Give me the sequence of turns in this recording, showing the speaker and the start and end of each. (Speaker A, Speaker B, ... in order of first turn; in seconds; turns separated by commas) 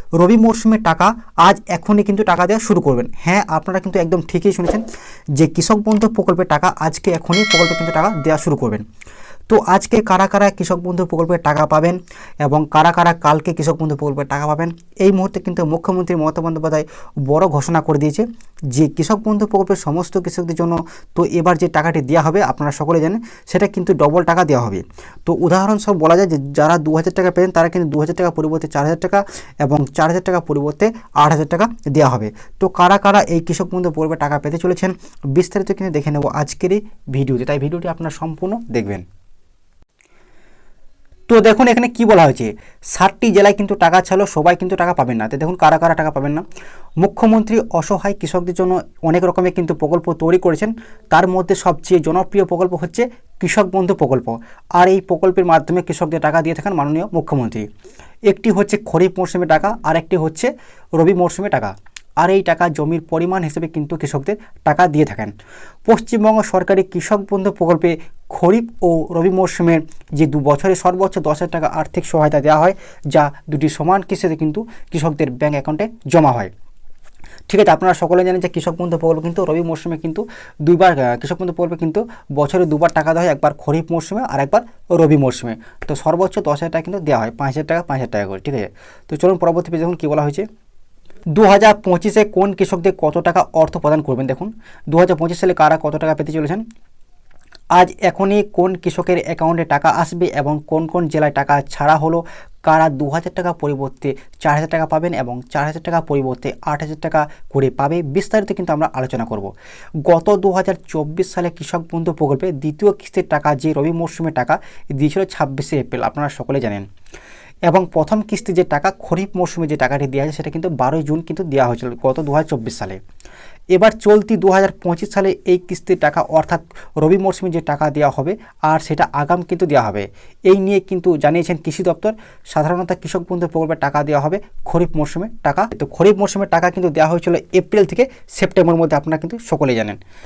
Speaker A: 0.2-4.8, Speaker A: 5.4-8.8, Speaker A: 9.5-39.0, Speaker A: 41.3-46.5, Speaker A: 47.0-57.7, Speaker A: 58.3-65.3, Speaker A: 65.8-76.5, Speaker A: 77.5-90.5, Speaker A: 91.3-96.6, Speaker A: 97.7-109.5, Speaker A: 110.0-116.8, Speaker A: 117.7-123.0, Speaker A: 123.7-140.0